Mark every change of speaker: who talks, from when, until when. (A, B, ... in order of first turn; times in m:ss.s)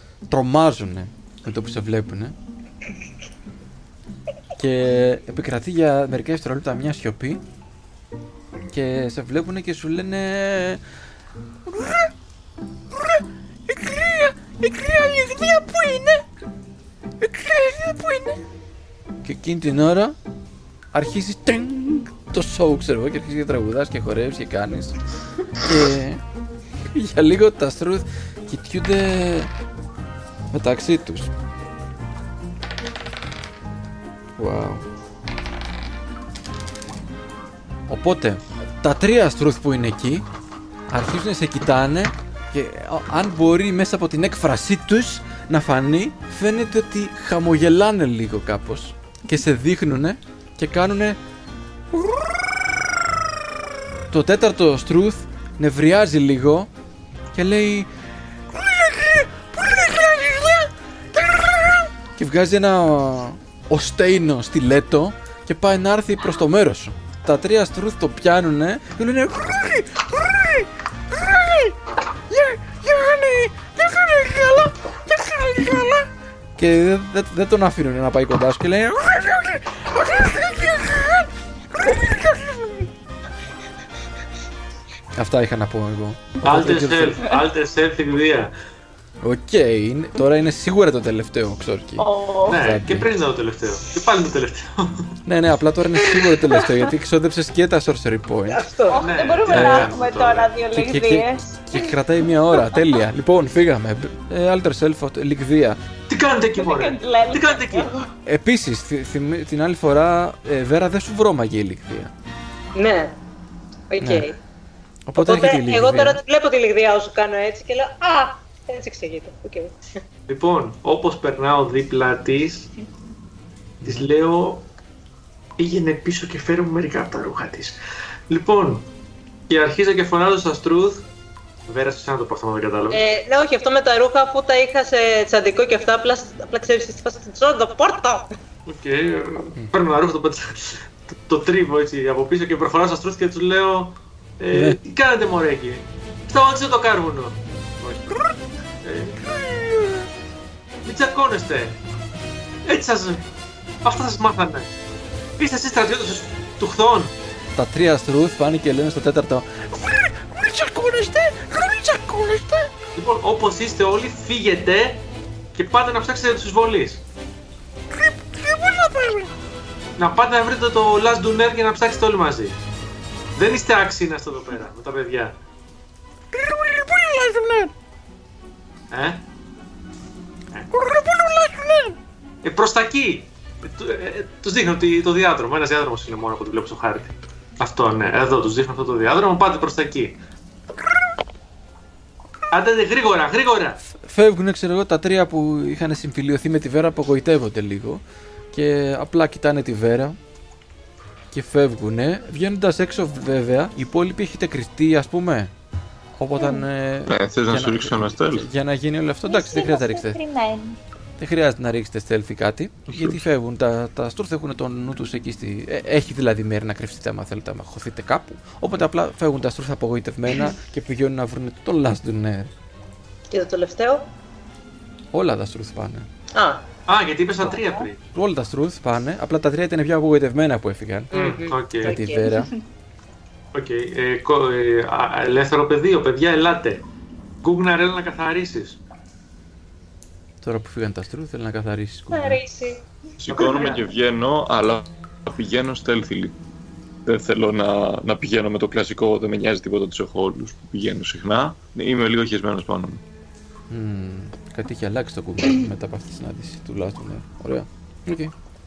0:00.3-0:02.3 A
0:04.6-0:07.4 A
0:08.7-0:10.8 A
0:11.7-0:12.1 A
0:12.9-0:16.2 A
0:17.2-0:18.4 A
0:19.2-0:20.2 A
0:20.9-0:25.0 A
0:25.6-0:26.2 A
0:26.9-0:29.5 A
0:30.5-0:31.3 A
0:34.4-0:34.8 A
0:37.9-0:40.2 A
0:40.9-0:51.2 A
0:51.9-0:52.6 A
0:54.1-0:56.7 A
0:57.3-0:57.9 A
0:58.5-1:11.8 A
1:12.3-1:22.9 A
1:25.2-1:27.2 A
1:26.4-1:28.5 B
1:29.2-1:33.1 A
1:32.0-1:32.6 C
1:32.5-1:35.1 B
1:35.2-1:38.6 A
1:38.5-1:39.0 D
1:38.9-1:41.9 C
1:38.9-1:40.5 B
1:39.5-1:39.9 A
1:40.7-1:45.8 A
1:42.5-1:42.8 C
1:46.1-1:47.9 B
1:46.6-1:48.1 C
1:48.2-1:52.1 A
1:52.7-1:53.1 D
1:53.9-1:54.4 D
1:54.0-1:54.3 A
1:55.1-1:56.2 A
1:55.2-1:59.7 D
2:00.3-2:02.7 B
2:03.8-2:04.1 A
2:03.8-2:04.7 B
2:05.6-2:07.8 B
2:08.3-2:08.9 B
2:09.5-2:11.0 B
2:11.7-2:13.0 B
2:12.9-2:18.3 D
2:18.6-2:28.2 B
2:24.5-2:24.8 A
2:28.8-2:29.2 B
2:29.2-2:30.1 A
2:30.8-2:31.8 B
2:32.6-2:33.3 B
2:33.8-2:34.7 B
2:35.4-2:37.1 B
2:37.6-2:42.7 A
2:43.0-2:45.0 B
2:45.5-2:47.0 B
2:47.9-2:49.3 A
2:50.0-2:52.6 B
2:53.4-2:55.4 B
2:56.3-2:57.7 A
2:58.9-2:59.2 B
3:00.7-3:02.0 A
3:02.4-3:10.2 B
3:12.5-3:13.8 B
3:14.0-3:18.0 A
3:18.5-3:20.2 A
3:21.3-3:25.5 A
3:26.2-3:30.2 A
3:26.4-3:26.6 C
3:27.1-3:28.5 E
3:29.2-3:30.8 C
3:31.2-3:42.5 A
3:32.9-3:33.2 E
3:43.3-3:44.0 D
3:45.1-3:46.1 A
3:46.4-3:46.6 D
3:46.9-3:48.0 B
3:48.1-3:51.1 A
3:51.1-3:52.3 D
3:51.1-3:52.0 B
3:51.8-3:52.5 A
3:53.5-3:56.8 B
3:57.4-3:58.8 B
4:00.4-4:02.4 A
4:02.1-4:02.8 D
4:03.2-4:06.4 E
4:03.3-4:03.9 B
4:03.4-4:03.8 D
4:07.0-4:13.0 E
4:13.7-4:18.3 A